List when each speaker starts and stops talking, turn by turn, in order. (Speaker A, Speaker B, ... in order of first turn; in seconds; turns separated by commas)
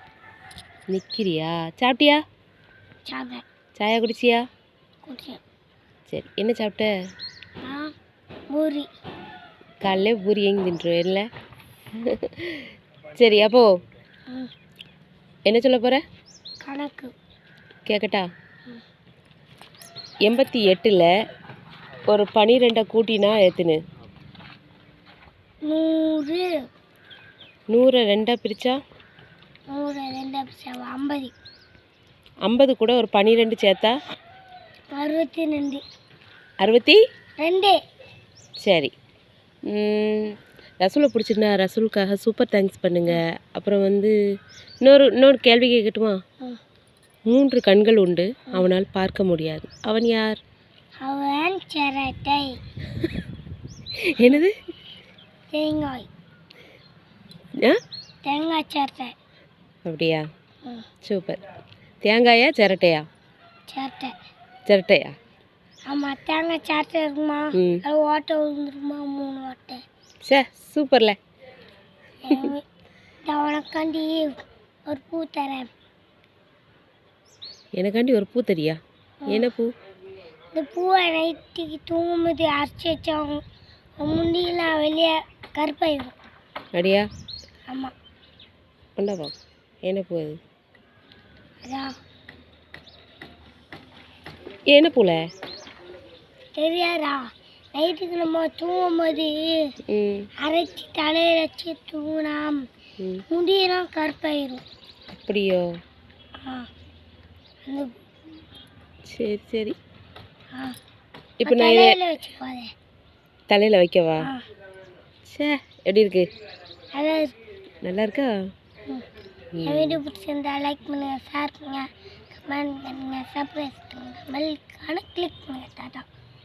Speaker A: 0.9-2.2, Speaker B: 3.0-3.4, Speaker A: 3.8-4.4, Speaker B: 5.0-5.4, Speaker A: 6.1-6.9, Speaker B: 7.6-7.9, Speaker B: 8.5-8.9, Speaker A: 9.8-11.3, Speaker A: 12.0-13.7, Speaker A: 15.5-16.0, Speaker B: 16.6-17.1, Speaker A: 17.9-18.2, Speaker A: 20.2-21.1, Speaker A: 22.1-23.8, Speaker B: 25.7-26.5, Speaker A: 27.7-28.8, Speaker B: 29.7-31.3, Speaker A: 32.5-33.9, Speaker B: 34.9-35.8, Speaker A: 36.6-37.0, Speaker B: 37.4-37.8, Speaker A: 38.6-38.9, Speaker A: 39.7-44.1, Speaker A: 44.8-46.1, Speaker A: 47.3-50.4, Speaker B: 51.0-52.6, Speaker A: 54.1-54.5, Speaker B: 55.5-56.1, Speaker B: 58.2-59.1, Speaker A: 59.9-60.2, Speaker A: 61.0-61.4, Speaker A: 62.0-63.0, Speaker B: 63.7-64.1, Speaker A: 64.7-65.1, Speaker B: 65.9-69.8, Speaker A: 67.5-67.8, Speaker A: 70.2-71.2, Speaker B: 72.2-72.6, Speaker B: 73.2-75.7, Speaker A: 77.8-79.7, Speaker B: 79.2-79.5, Speaker B: 80.5-83.4, Speaker B: 84.0-86.1, Speaker A: 86.7-87.1, Speaker A: 89.0-89.3, Speaker A: 89.8-90.4, Speaker B: 91.6-91.9, Speaker A: 94.7-95.2, Speaker B: 96.5-99.7, Speaker A: 99.9-100.3, Speaker B: 100.4-102.6, Speaker A: 103.0-103.2, Speaker B: 103.3-104.6, Speaker A: 105.1-105.6, Speaker B: 106.4-106.7, Speaker B: 107.7-107.9, Speaker A: 109.1-109.8, Speaker A: 111.4-112.0, Speaker B: 111.4-112.7, Speaker A: 113.5-114.3, Speaker B: 114.2-114.4, Speaker A: 115.2-116.3, Speaker B: 116.9-117.3, Speaker A: 117.8-118.3, Speaker A: 119.6-120.0, Speaker B: 119.6-126.1